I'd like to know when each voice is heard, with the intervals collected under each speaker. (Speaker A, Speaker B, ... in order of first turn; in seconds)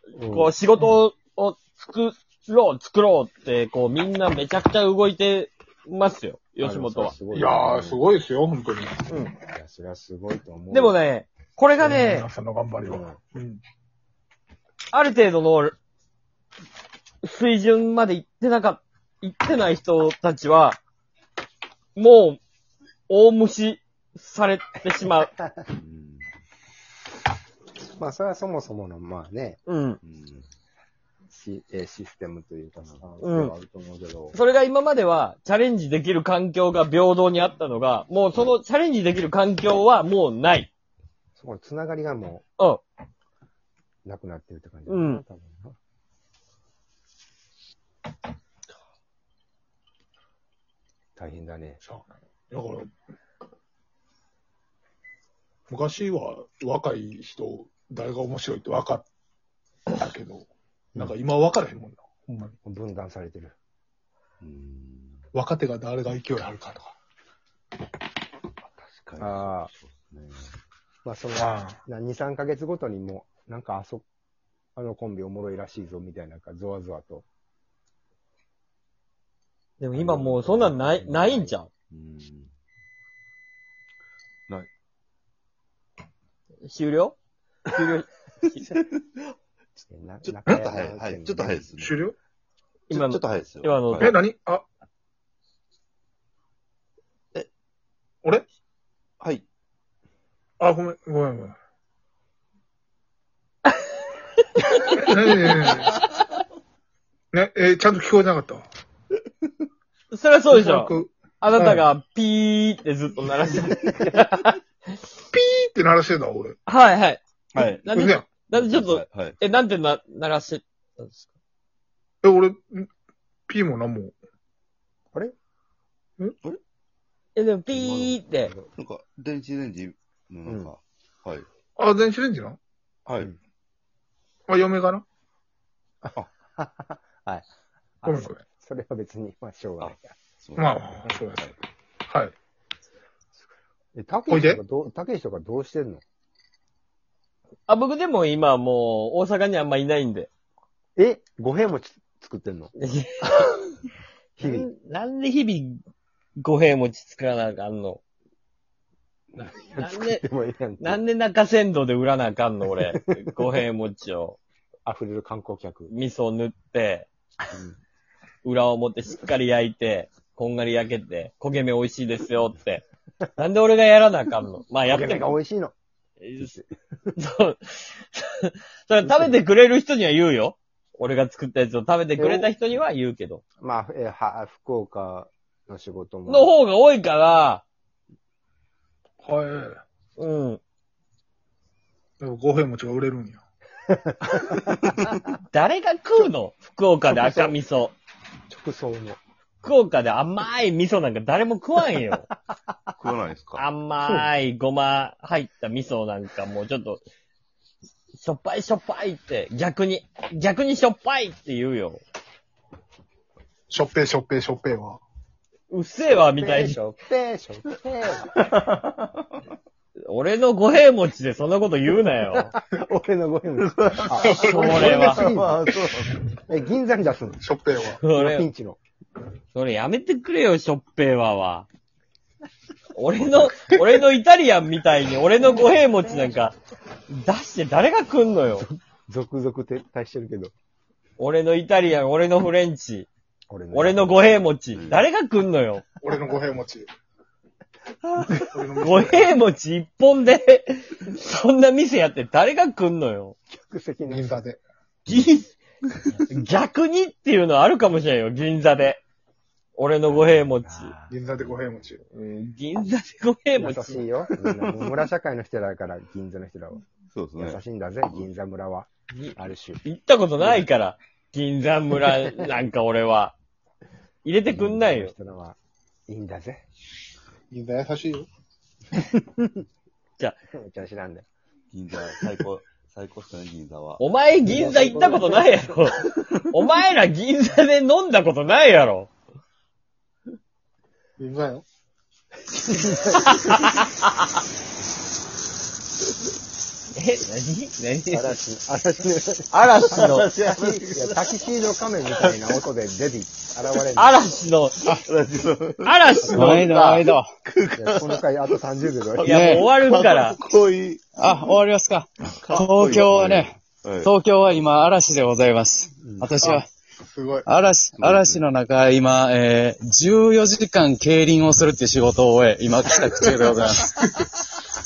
Speaker A: 0.1-0.5, 6.6-8.0, 9.5-11.0, 12.8-13.2, 28.0-29.6, 31.3-34.4, 41.4-42.5, 44.1-45.8, 51.2-51.8, 62.6-63.6, 69.2-69.7, 71.0-74.0, 74.8-77.2, 79.9-81.5, 89.8-91.7, 130.5-130.7, 136.0-137.4, 138.0-140.1, 143.9-146.0, 150.9-152.7, 154.4-154.7, 159.4-161.0, 164.9-165.9, 174.9-175.7, 176.4-176.7, 179.0-179.4, 182.2-182.6, 183.6-186.5, 193.9-195.0, 197.1-197.6, 198.5-199.2, 216.1-218.6, 222.3-225.9, 226.5-227.4, 228.1-228.8, 235.4-236.5, 238.6-240.5, 243.5-244.4, 253.5-254.4, 260.3-261.2, 263.6-266.8, 267.4-269.8, 270.4-270.6, 274.5-275.6, 276.1-276.6, 279.1-279.5, 280.5-281.3, 284.4-285.7, 292.5-293.6, 298.1-304.2, 306.4-306.8, 307.8-309.6, 316.0-316.3
Speaker B: 0.2-7.2, 9.1-9.4, 10.7-12.3, 14.9-15.8, 17.2-20.8, 22.0-22.4, 23.1-25.3, 29.7-30.0, 33.2-33.5, 34.3-40.7, 44.9-45.2, 79.8-81.7, 86.7-87.2, 87.7-88.8, 92.9-94.2, 104.6-105.6, 110.1-114.6, 116.7-121.3, 127.4-128.5, 147.7-150.3, 152.8-153.7, 154.4-155.8, 156.4-158.0, 159.4-160.2, 160.8-164.4, 165.9-167.1, 168.4-172.8, 173.4-175.3, 176.2-176.5, 177.2-183.4, 186.3-187.6, 190.2-190.6, 195.5-197.9, 199.6-202.3, 203.6-207.0, 208.2-212.0, 215.7-216.8, 220.1-222.5, 224.3-225.2, 228.0-228.4, 229.5-231.7, 232.9-236.6, 237.1-238.7, 241.2-243.1, 243.7-245.8, 248.8-253.4, 255.1-255.5, 256.3-259.0, 259.8-260.9, 262.1-264.1, 269.1-273.3, 274.2-275.1, 284.0-289.1, 293.2-294.1, 296.9-298.4, 299.5-300.3, 303.9-305.0, 305.8-307.0, 309.2-310.4
Speaker C: 7.3-9.1, 11.8-13.6, 51.8-52.9, 55.7-59.1, 59.9-62.6, 65.3-66.9, 71.4-71.8, 91.8-92.2, 94.0-94.7, 100.6-101.5, 104.9-106.0, 107.3-108.7, 110.5-111.9, 115.3-116.6, 117.9-118.3, 122.2-122.9, 123.5-124.1, 131.8-132.6, 134.5-135.0, 138.1-138.4, 140.6-141.5, 142.1-142.3, 144.3-144.6, 189.2-189.8, 192.2-193.4, 213.7-215.0, 224.2-224.8, 227.4-228.0, 246.0-246.9, 248.5-249.3, 254.1-254.6, 261.1-262.0, 277.5-278.3, 291.2-291.6, 316.4-317.4
Speaker D: 25.7-26.2, 30.0-30.5, 64.4-65.2, 68.8-70.4, 80.9-82.5, 90.2-92.0, 92.9-94.1, 99.2-99.5, 117.5-117.9, 118.5-119.4, 127.7-131.4, 133.1-133.3, 139.8-141.1, 203.0-203.7, 218.4-219.3, 223.6-226.3, 244.7-245.0, 264.5-264.9, 267.1-267.6, 281.7-284.0, 299.9-301.3, 304.9-308.2, 309.7-311.3, 312.3-314.1, 317.9-318.5
Speaker E: 306.3-307.3, 309.2-309.7, 311.2-316.7, 317.4-323.9